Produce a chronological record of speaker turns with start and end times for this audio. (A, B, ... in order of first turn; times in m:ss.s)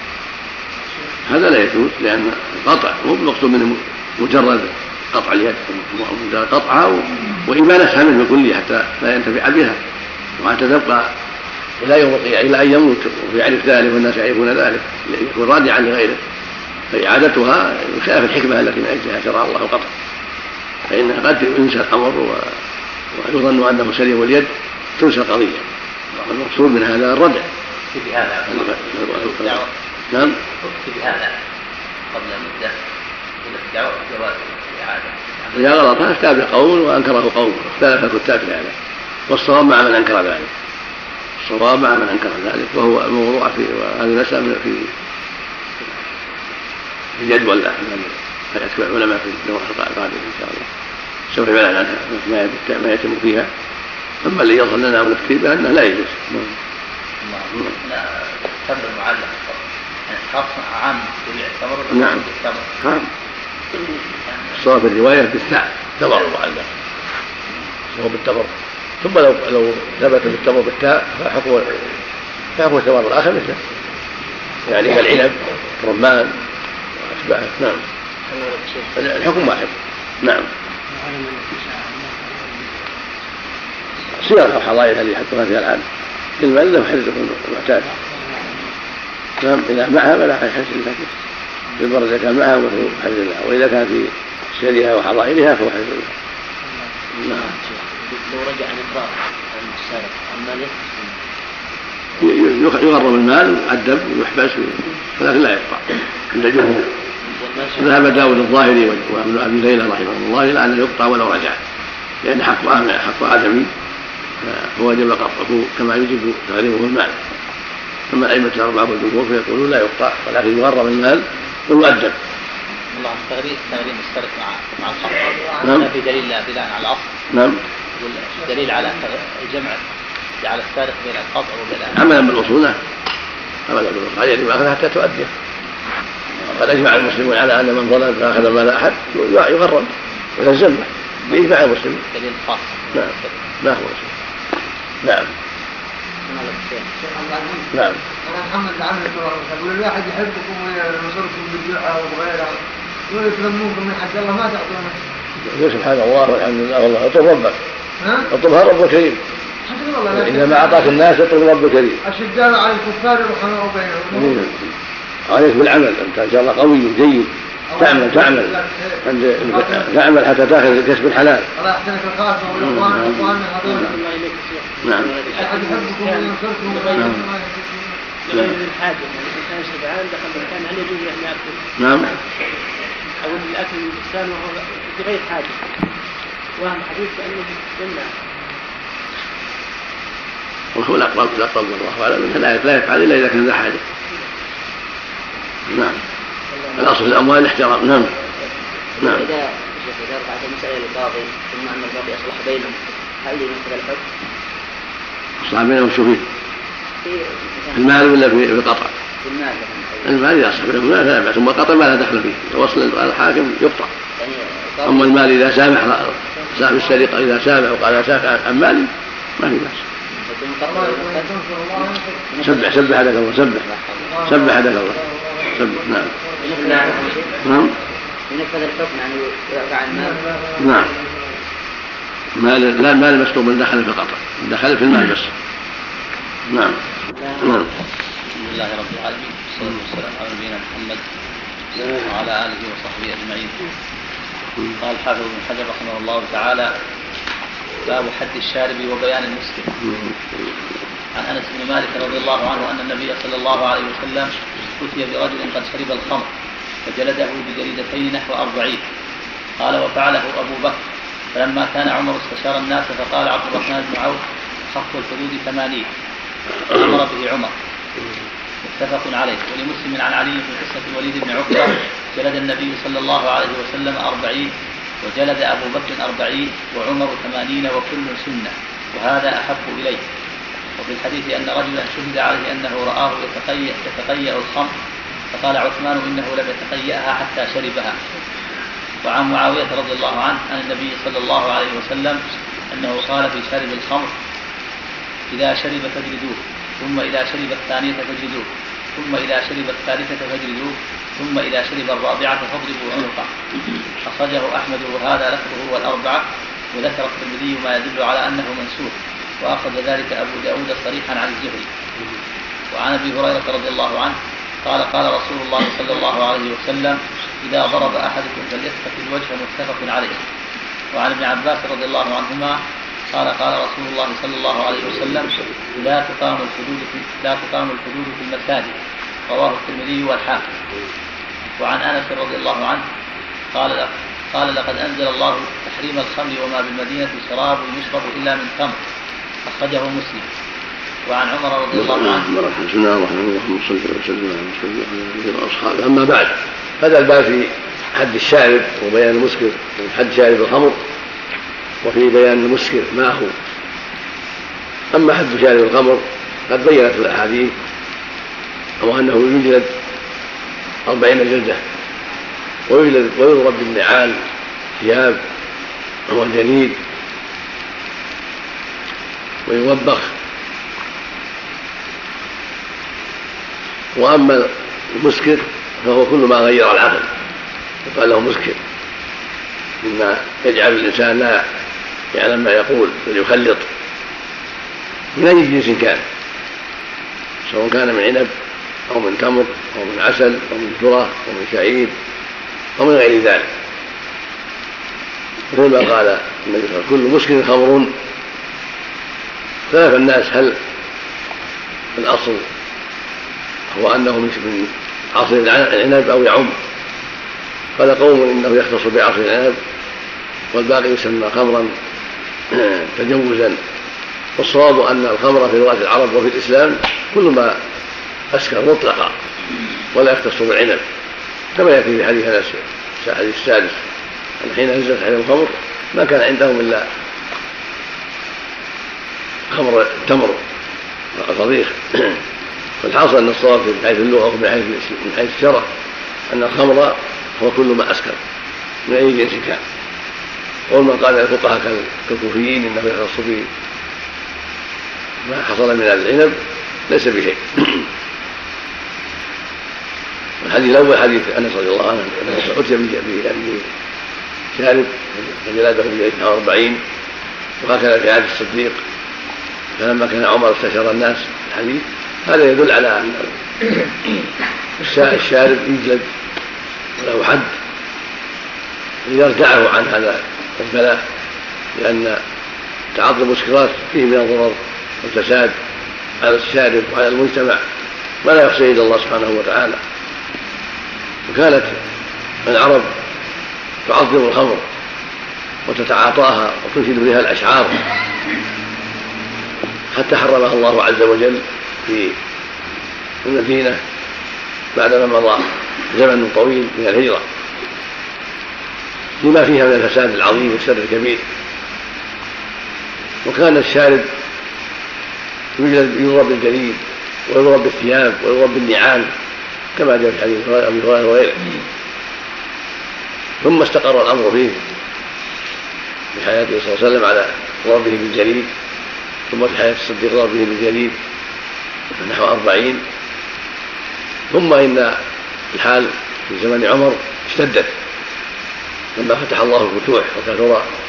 0:01.2-0:09.8 A
0:10.4-0:11.1 A
0:11.8-0:16.2 A
0:16.9-0:19.9 A
0:20.9-0:22.6 A
0:23.1-0:25.6 A
0:26.2-0:27.4 A
0:27.9-0:29.7 B
0:28.5-0:29.6 A
0:30.3-0:31.3 B
0:32.1-0:32.8 B
0:33.4-0:35.6 B
0:35.5-0:38.7 A
0:39.3-0:40.5 A
0:41.4-0:44.9 A
0:47.2-0:50.7 A
0:51.3-0:53.5 A
0:54.2-0:56.5 A
0:57.2-1:02.7 B
1:01.9-1:02.2 A
1:02.8-1:03.1 A
1:04.5-1:06.7 A
1:07.9-1:11.9 A
1:12.6-1:13.6 A
1:14.6-1:16.3 A
1:17.0-1:17.8 A
1:18.9-1:20.5 A
1:24.2-1:25.8 A
1:26.4-1:27.9 A
1:29.4-1:31.1 A
1:31.8-1:36.1 A
1:37.2-1:37.4 A
1:37.3-1:41.0 C
1:42.2-1:46.9 A
1:47.3-1:48.2 C
1:47.8-1:51.6 A
1:52.2-1:53.7 A
1:54.4-1:57.2 A
1:58.1-2:02.1 A
2:02.9-2:07.1 B
2:05.6-2:05.9 A
2:07.3-2:07.6 A
2:08.0-2:09.8 B
2:10.4-2:12.3 B
2:11.9-2:12.8 A
2:13.7-2:15.3 A
2:16.5-2:22.0 A
2:22.1-2:23.3 B
2:22.9-2:24.1 A
2:25.0-2:25.3 A
2:26.3-2:26.9 C
2:27.0-2:27.7 D
2:27.7-2:28.0 A
2:28.3-2:32.5 D
2:33.1-2:34.9 D
2:35.4-2:37.6 A
2:38.0-2:38.3 D
2:38.3-2:39.2 A
2:39.6-2:40.9 D
2:40.1-2:42.0 A
2:42.0-2:44.5 D
2:44.1-2:44.5 A
2:45.3-2:51.4 A
2:47.7-2:49.9 D
2:51.5-2:54.0 D
2:52.6-2:53.8 A
2:54.2-2:54.7 E
2:54.8-2:55.1 A
2:54.8-2:55.6 C
2:55.2-2:57.2 E
2:55.3-2:57.9 D
2:58.3-3:02.2 E
3:01.8-3:02.1 A
3:03.2-3:05.7 E
3:06.6-3:08.1 E
3:10.7-3:13.8 A
3:15.7-3:16.0 A
3:16.8-3:18.1 A
3:19.0-3:24.0 C
3:25.4-3:26.2 A
3:27.0-3:27.9 C
3:27.7-3:28.9 A
3:29.2-3:30.2 C
3:30.0-3:33.9 A
3:34.2-3:35.3 C
3:34.8-3:39.8 A
3:40.2-3:42.8 C
3:40.6-3:42.3 D
3:42.4-3:43.7 A
3:43.6-3:44.1 C
3:44.0-3:47.0 D
3:44.2-3:45.0 A
3:45.5-3:46.1 A
3:46.4-3:47.4 C
3:47.4-3:47.7 A
3:48.3-3:50.2 C
3:50.0-3:50.9 D
3:50.6-3:50.9 A
3:52.4-3:55.3 A
3:56.5-3:56.8 A
3:57.2-3:57.6 C
3:57.4-3:57.7 A
3:58.4-4:01.0 B
4:01.8-4:03.7 B
4:04.8-4:06.7 B
4:07.8-4:09.7 B
4:09.8-4:10.2 A
4:11.1-4:16.3 B
4:16.8-4:18.8 B
4:19.6-4:20.8 B
4:21.3-4:25.9 B
4:26.7-4:27.5 B
4:28.7-4:40.0 B
4:40.8-4:44.7 B
4:45.3-4:48.0 B
4:49.0-4:52.2 B
4:52.7-4:54.1 B
4:55.3-5:03.3 B
5:04.0-5:11.7 B
5:12.7-5:20.2 B
5:20.9-5:28.8 B
5:29.3-5:30.5 B
5:31.6-5:32.8 B
5:33.5-5:38.8 B
5:39.4-5:40.2 B
5:41.0-5:42.3 B
5:41.7-5:50.8 A
5:51.8-5:53.3 A
5:54.9-5:57.5 A
5:58.8-5:59.7 A
6:00.8-6:01.6 A
6:02.7-6:04.2 A
6:04.8-6:05.2 A
6:06.1-6:06.8 A
6:09.5-6:10.1 A
6:13.9-6:17.1 A
6:17.8-6:18.6 A
6:19.8-6:21.4 A
6:22.1-6:23.7 A
6:25.2-6:26.0 A
6:27.4-6:28.3 A
6:28.9-6:31.9 A
6:32.8-6:33.5 A
6:35.5-6:37.9 A
6:39.7-6:40.6 A
6:42.0-6:42.4 A
6:43.7-6:46.5 A
6:47.8-6:49.6 A
6:50.5-6:51.7 A
6:52.5-6:53.6 A
6:54.4-6:57.6 A
6:58.3-6:59.1 A
6:59.9-7:00.8 A
7:01.5-7:03.8 A
7:04.4-7:06.8 A
7:09.5-7:10.4 A
7:11.1-7:12.2 A
7:12.8-7:15.7 A
7:16.3-7:18.2 A
7:18.8-7:19.6 A
7:20.7-7:23.5 A
7:25.2-7:26.4 A
7:26.9-7:27.8 A
7:30.4-7:33.7 A
7:34.5-7:36.8 A
7:37.6-7:38.8 A
7:39.8-7:43.8 A
7:44.8-7:46.1 A
7:47.0-7:47.5 A
7:49.0-7:51.0 A
7:51.7-7:52.2 A
7:52.9-7:55.5 A
7:56.2-7:57.6 A
7:58.2-7:59.8 A
8:01.3-8:01.8 A
8:02.4-8:02.9 A
8:03.8-8:04.6 A
8:05.7-8:07.8 A
8:09.9-8:12.2 A
8:13.2-8:13.8 A
8:14.7-8:17.2 A
8:19.2-8:21.2 A
8:23.2-8:24.1 A
8:25.6-8:29.1 A
8:29.8-8:31.5 A
8:33.4-8:34.6 A
8:36.1-8:38.5 A
8:39.3-8:41.0 A
8:41.9-8:42.8 A
8:44.3-8:45.0 A
8:45.5-8:47.7 A
8:49.0-8:50.7 A